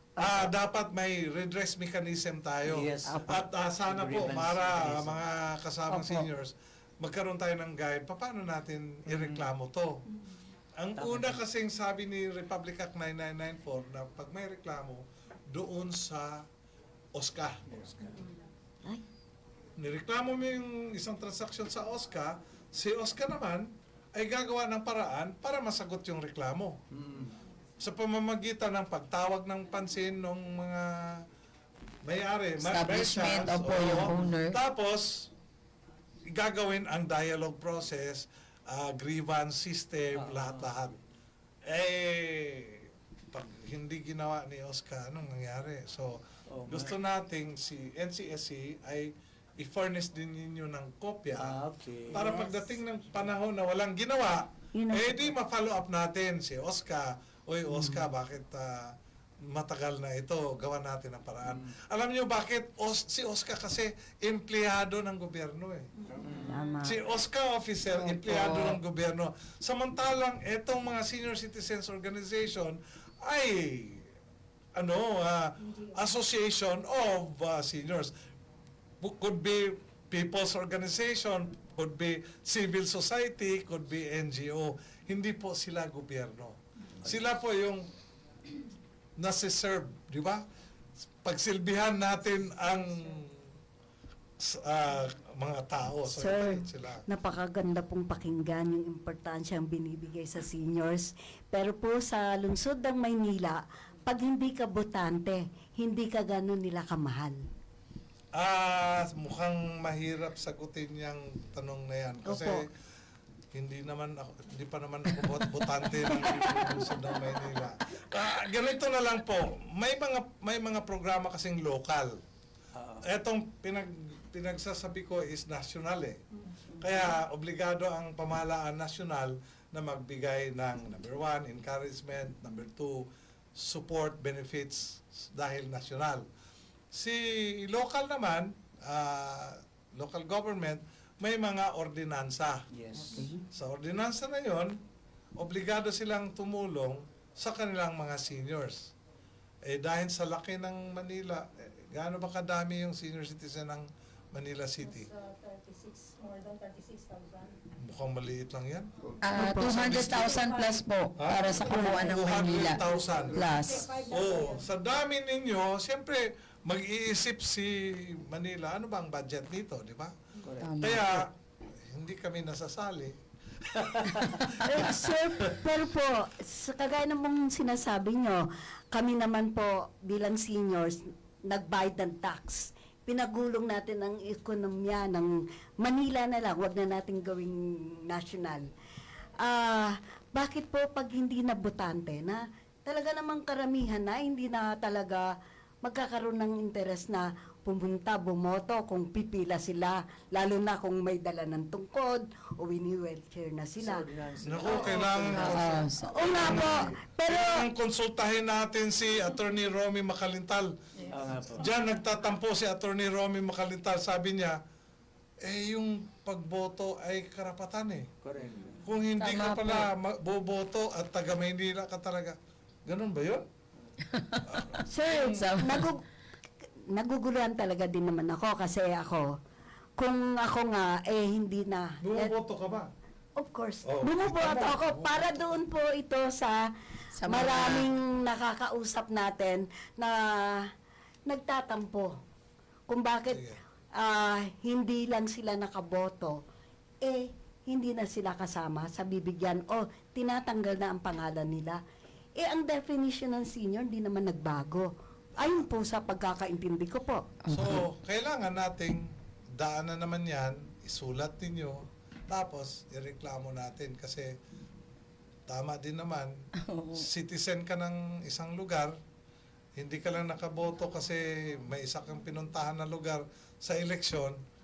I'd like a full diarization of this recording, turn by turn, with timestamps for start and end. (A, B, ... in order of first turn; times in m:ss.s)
0:00.2-0:10.0 A
0:02.6-0:05.2 B
0:05.9-0:06.2 C
0:09.1-0:09.5 B
0:10.8-0:16.4 A
0:11.0-0:11.4 B
0:17.2-0:18.2 A
0:19.8-0:26.8 A
0:26.9-0:27.4 B
0:27.8-0:31.2 A
0:32.0-0:35.3 A
0:32.6-0:34.6 D
0:36.3-0:41.0 A
0:40.1-0:40.8 B
0:41.7-0:51.6 A
0:46.5-0:46.9 B
0:51.3-0:52.7 B
0:52.1-0:58.9 A
0:54.8-0:55.3 C
0:57.7-0:58.0 C
0:59.5-1:05.9 A
1:06.2-1:06.6 B
1:06.4-1:07.0 C
1:06.8-1:14.0 A
1:07.9-1:08.8 D
1:14.8-1:18.1 A
1:19.0-1:27.8 A
1:29.2-1:30.4 A
1:31.2-1:33.4 A
1:34.4-1:37.0 A
1:36.0-1:47.4 C
1:48.4-1:52.7 A
1:52.3-1:52.6 C
1:53.5-2:02.2 A
2:02.8-2:03.0 B
2:03.0-2:06.2 A
2:06.7-2:16.2 A
2:16.9-2:22.6 A
2:22.7-2:23.3 B
2:23.3-2:24.8 A
2:25.4-2:28.9 A
2:29.7-2:35.1 A
2:34.8-2:37.6 E
2:37.8-2:38.9 A
2:39.2-2:43.9 D
2:39.3-2:40.2 C
2:39.8-2:40.8 E
2:40.0-2:40.2 A
2:41.2-2:50.1 A
2:41.7-2:42.0 E
2:43.7-2:44.6 E
2:43.7-2:44.0 C
2:50.4-2:50.7 B
2:50.6-2:51.2 D
2:50.8-2:51.3 A
2:51.8-2:53.2 A
2:53.7-2:55.6 A
2:53.9-2:54.6 B
2:54.6-3:08.7 C
3:09.4-3:15.3 C
3:15.8-3:24.1 C
3:23.8-3:25.7 B
3:24.4-3:30.7 A
3:24.7-3:25.0 C
3:25.2-3:26.8 D
3:26.0-3:27.7 C
3:26.3-3:26.7 B
3:31.1-3:31.7 B
3:31.5-3:34.6 A
3:35.4-3:38.1 A
3:38.2-3:38.8 B
3:38.8-3:43.4 A
3:39.2-3:39.9 D
3:44.1-3:45.9 D
3:44.5-3:44.8 A
3:44.9-3:46.0 C
3:46.9-3:49.3 C
3:50.0-3:52.3 C
3:52.0-3:52.9 A
3:53.4-3:56.7 C
3:53.8-3:55.5 A
3:57.1-3:57.9 D
3:57.2-4:00.6 C
4:01.3-4:02.1 C
4:02.9-4:06.4 C
4:03.3-4:03.6 A
4:07.0-4:11.8 C
4:12.4-4:17.3 C
4:15.4-4:15.7 A
4:17.4-4:17.8 D
4:17.5-4:24.3 A
4:25.5-4:26.4 A
4:26.6-4:27.1 D
4:27.0-4:29.0 A
4:29.8-4:34.4 A